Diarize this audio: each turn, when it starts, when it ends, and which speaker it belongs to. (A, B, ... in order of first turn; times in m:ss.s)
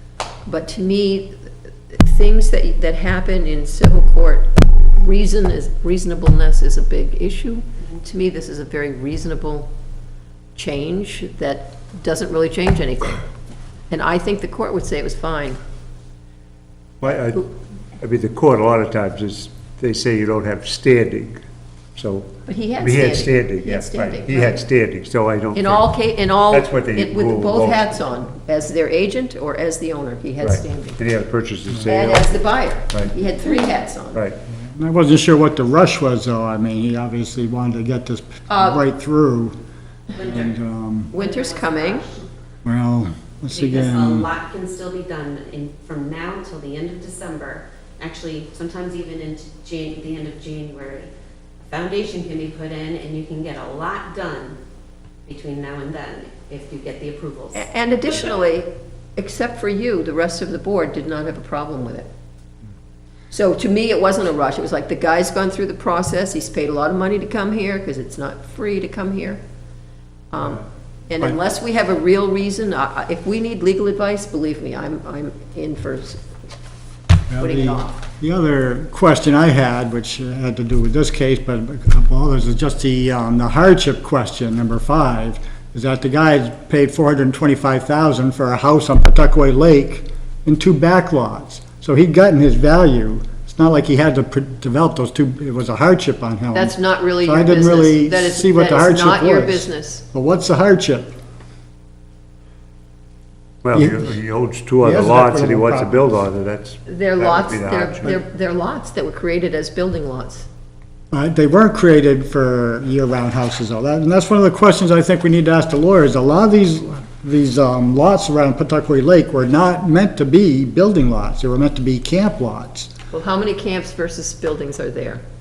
0:00.5-0:09.7 A
0:10.6-0:13.2 A
0:13.9-0:15.6 A
0:17.0-0:21.4 B
0:22.0-0:26.0 B
0:22.4-0:24.6 A
0:25.5-0:31.0 A
0:26.5-0:28.0 B
0:30.4-0:32.3 B
0:31.9-0:34.2 A
0:34.6-0:39.6 C
0:38.5-0:38.8 A
0:40.1-0:40.5 D
0:40.2-0:41.1 C
0:41.1-0:42.1 A
0:41.1-0:42.2 D
0:42.6-0:44.3 C
0:43.5-0:51.1 D
0:51.7-0:54.6 D
0:55.3-0:57.7 D
0:57.5-1:02.1 A
1:03.3-1:09.4 A
1:10.3-1:16.2 A
1:17.3-1:41.2 C
1:17.4-1:18.0 A
1:36.5-1:40.0 A
1:43.6-1:48.2 B
1:43.7-1:44.1 C
1:44.8-1:46.1 C
1:46.9-1:50.5 A
1:51.1-2:02.9 C
2:03.1-2:05.2 A